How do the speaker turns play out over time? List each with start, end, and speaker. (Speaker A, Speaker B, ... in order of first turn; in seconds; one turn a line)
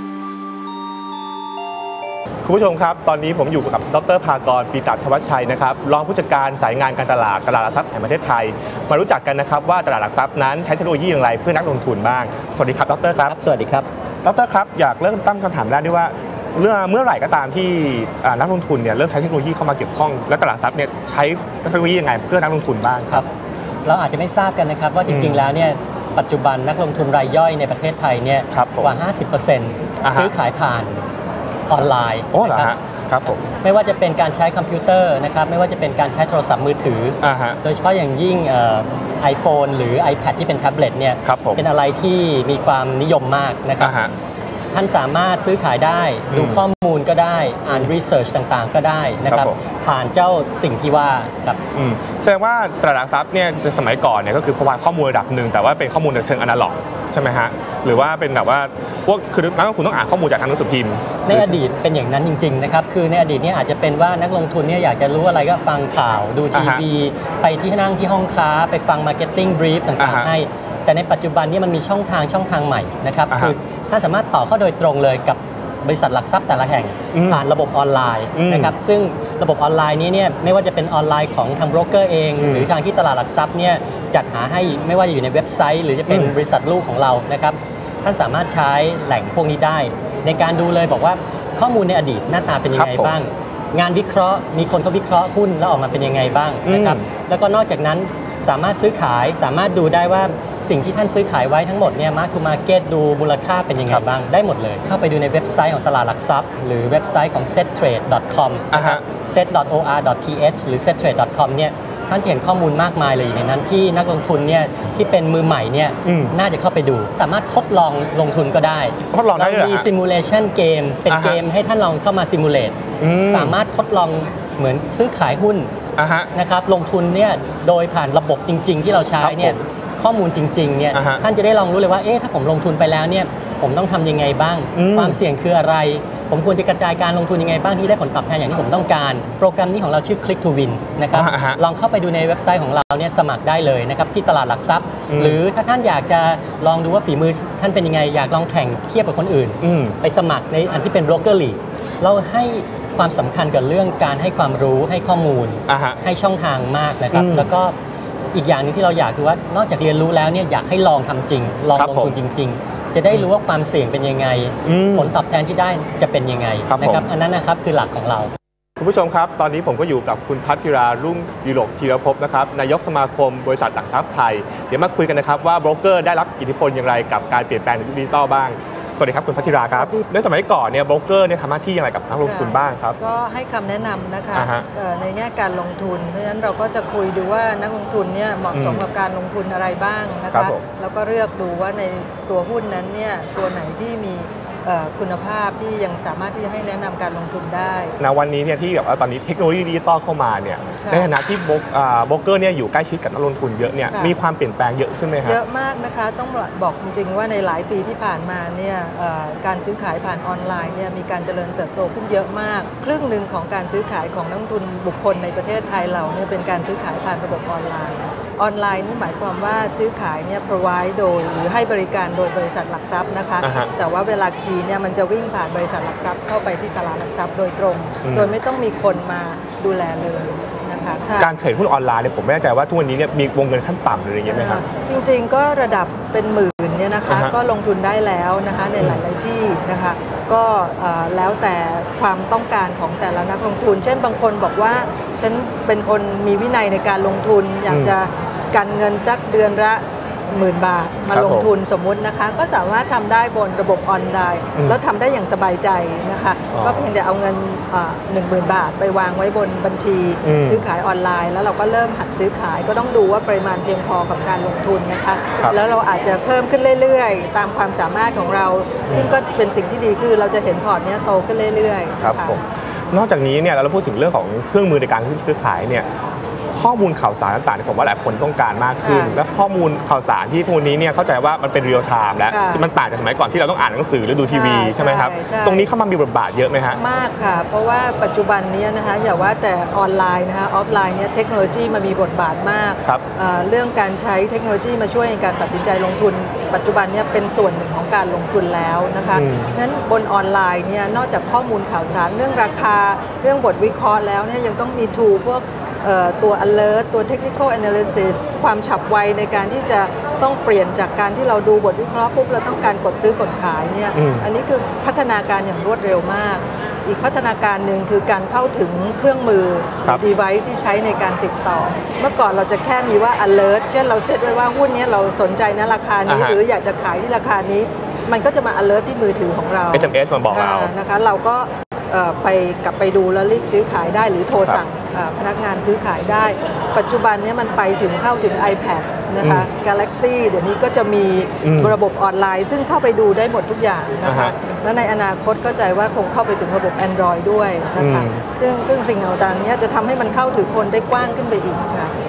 Speaker A: 2.4-13.3
Speaker B: 13.2-13.9
Speaker A: 14.2-23.2
Speaker B: 23.9-31.0
Speaker A: 25.1-25.5
Speaker A: 28.5-28.9
Speaker A: 30.0-30.3
Speaker B: 31.7-44.0
Speaker A: 32.3-33.4
Speaker A: 37.2-37.6
Speaker A: 41.2-41.6
Speaker A: 43.8-44.1
Speaker B: 44.7-51.6
Speaker A: 46.3-46.6
Speaker A: 49.3-49.6
Speaker A: 51.8-61.6
Speaker B: 61.3-125.7
Speaker A: 66.5-66.8
Speaker A: 70.0-70.3
Speaker A: 77.1-77.4
Speaker A: 78.3-78.8
Speaker A: 82.4-82.7
Speaker A: 86.1-86.3
Speaker A: 92.7-93.2
Speaker A: 96.7-97.0
Speaker A: 108.7-109.0
Speaker A: 116.0-116.3
Speaker A: 119.1-119.9
Speaker A: 121.1-121.4
Speaker A: 123.0-123.6
Speaker A: 126.0-126.3
Speaker B: 126.3-157.8
Speaker A: 129.2-129.6
Speaker A: 130.9-131.2
Speaker A: 134.8-135.2
Speaker A: 141.1-141.6
Speaker A: 145.1-145.4
Speaker A: 149.6-150.0
Speaker A: 155.7-156.0
Speaker A: 157.1-157.5
Speaker B: 158.3-168.3
Speaker A: 161.8-162.2
Speaker A: 164.7-165.2
Speaker A: 166.7-167.1
Speaker A: 168.8-183.0
Speaker C: 179.8-180.0
Speaker C: 182.2-198.0
Speaker A: 184.3-184.7
Speaker A: 188.5-188.8
Speaker A: 190.3-190.6
Speaker A: 198.0-205.4
Speaker C: 200.8-201.1
Speaker C: 205.2-231.3
Speaker A: 223.4-223.7
Speaker A: 228.1-228.3
Speaker A: 231.2-234.6
Speaker C: 234.3-272.4
Speaker A: 237.1-237.3
Speaker A: 247.7-247.9
Speaker A: 251.1-251.5
Speaker A: 256.5-256.9
Speaker A: 260.2-260.6
Speaker A: 272.0-275.9
Speaker A: 276.5-286.8
Speaker C: 278.8-279.2
Speaker C: 282.3-282.7
Speaker C: 284.3-285.7
Speaker C: 286.7-351.9
Speaker A: 299.1-299.6
Speaker A: 313.9-314.3
Speaker A: 326.1-326.4
Speaker A: 329.7-330.7
Speaker A: 339.2-339.5
Speaker A: 341.4-341.8
Speaker A: 344.0-344.3
Speaker A: 347.8-348.2